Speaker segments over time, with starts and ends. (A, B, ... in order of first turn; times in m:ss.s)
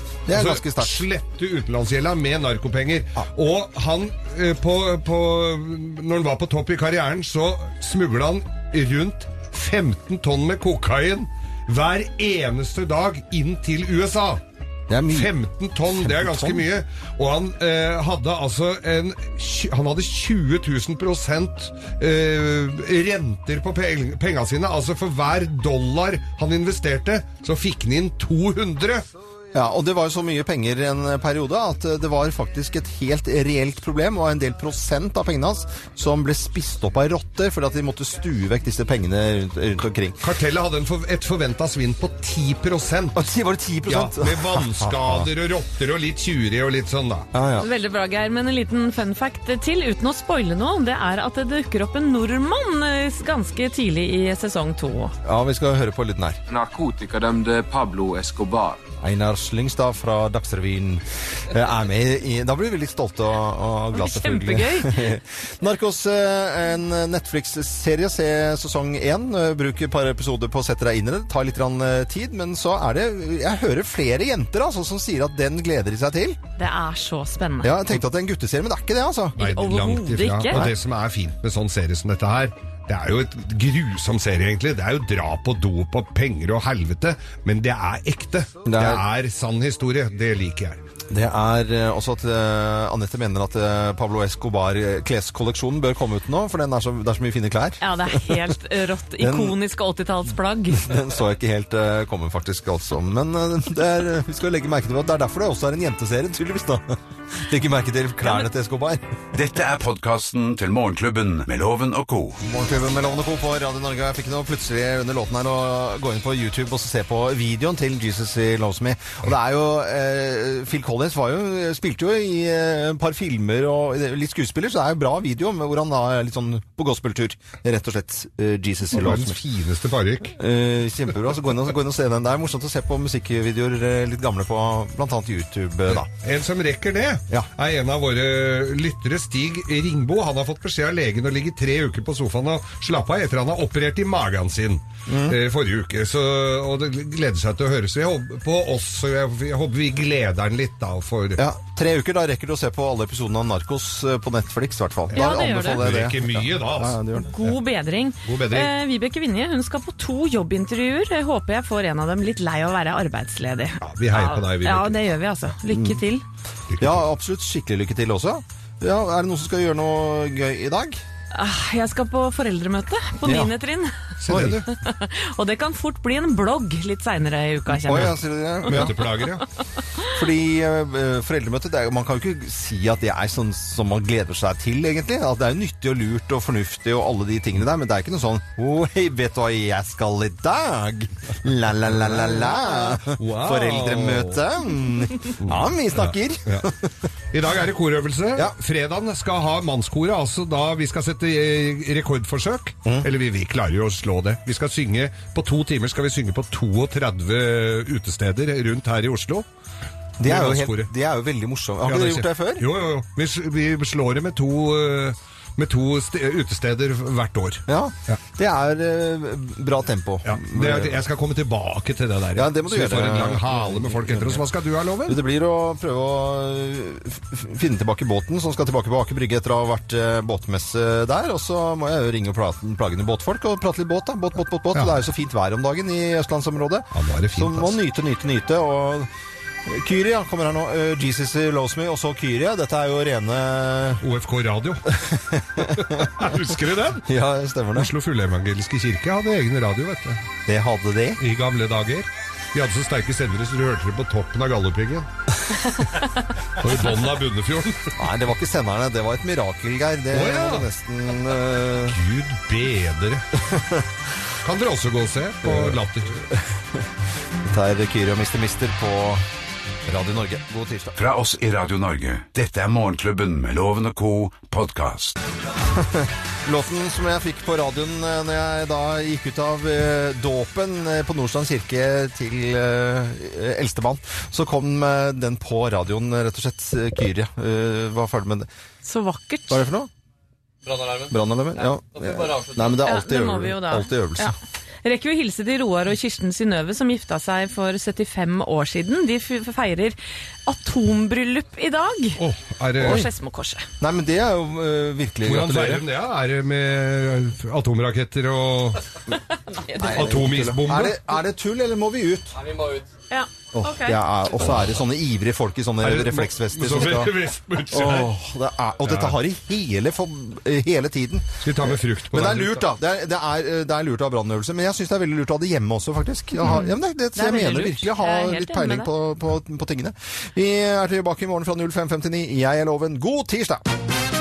0:00.3-0:01.0 A
0:00.3-0:14.4 B
0:14.9-0:15.3 A
0:15.1-0:29.1 B
0:15.9-0:16.6 A
0:29.5-0:40.2 A
0:40.2-0:43.3 B
0:43.1-0:45.3 A
0:43.8-0:47.3 B
0:47.3-0:47.7 A
0:47.6-0:55.1 C
0:55.2-0:56.4 A
0:56.5-0:58.8 D
0:59.0-1:16.4 A
1:03.9-1:05.1 C
1:16.6-1:17.8 C
1:17.6-1:19.4 A
1:19.4-1:20.6 C
1:19.4-1:30.8 B
1:20.5-1:20.8 A
1:28.6-1:29.0 A
1:31.1-1:38.5 A
1:37.8-1:40.9 C
1:39.2-1:39.6 A
1:40.8-1:49.0 A
1:49.3-1:52.4 E
1:52.4-2:09.4 A
2:08.9-2:10.4 B
2:10.4-2:16.1 A
2:15.9-2:31.4 B
2:25.1-2:25.4 A
2:31.4-2:37.3 A
2:35.1-2:37.6 B
2:35.2-2:35.8 C
2:37.2-2:46.2 C
2:38.2-2:38.7 B
2:43.8-2:45.1 B
2:45.7-2:46.0 A
2:46.7-2:47.0 B
2:46.8-2:51.0 A
2:51.3-2:59.4 C
2:53.2-2:53.5 A
2:54.2-2:54.7 B
2:54.3-2:54.6 A
2:57.7-2:59.0 A
2:58.7-2:59.4 B
3:00.1-3:16.9 A
3:12.0-3:14.4 B
3:15.4-3:16.7 B
3:17.3-3:29.5 B
3:22.8-3:23.1 A
3:30.2-3:32.7 A
3:30.2-3:30.9 B
3:31.8-3:38.2 B
3:37.7-3:41.0 A
3:40.2-3:45.2 B
3:42.4-3:44.4 A
3:45.1-3:59.1 A
3:54.7-3:55.0 B
3:56.9-3:57.8 B
3:59.7-4:04.0 A
4:04.0-4:04.9 B
4:05.0-4:06.4 A
4:05.6-4:07.1 B
4:07.0-4:07.9 A
4:07.8-4:10.2 B
4:10.5-4:11.2 A
4:11.2-4:15.1 B
4:16.6-4:17.9 B
4:18.0-4:22.0 A
4:20.1-4:20.7 B
4:21.8-4:23.2 B
4:23.4-4:23.9 A
4:24.4-4:26.2 B
4:25.4-4:26.8 A
4:27.5-4:29.2 A
4:29.9-4:31.0 A
4:31.0-4:35.2 E
4:35.7-4:48.5 A
4:48.8-4:49.6 C
4:49.5-4:49.9 A
4:50.6-4:52.9 F
4:51.1-4:54.3 A
4:52.8-5:02.2 C
5:02.2-5:03.1 B
5:02.8-5:03.7 C
5:02.8-5:03.1 A
5:03.8-5:05.8 A
5:05.3-5:08.9 B
5:09.5-5:10.2 C
5:09.8-5:12.4 A
5:09.8-5:11.0 B
5:12.4-5:12.9 F
5:13.1-5:14.1 C
5:13.5-5:17.2 A
5:15.8-5:18.1 B
5:17.7-5:33.7 A
5:18.8-5:19.2 B
5:21.4-5:22.7 B
5:26.4-5:28.9 C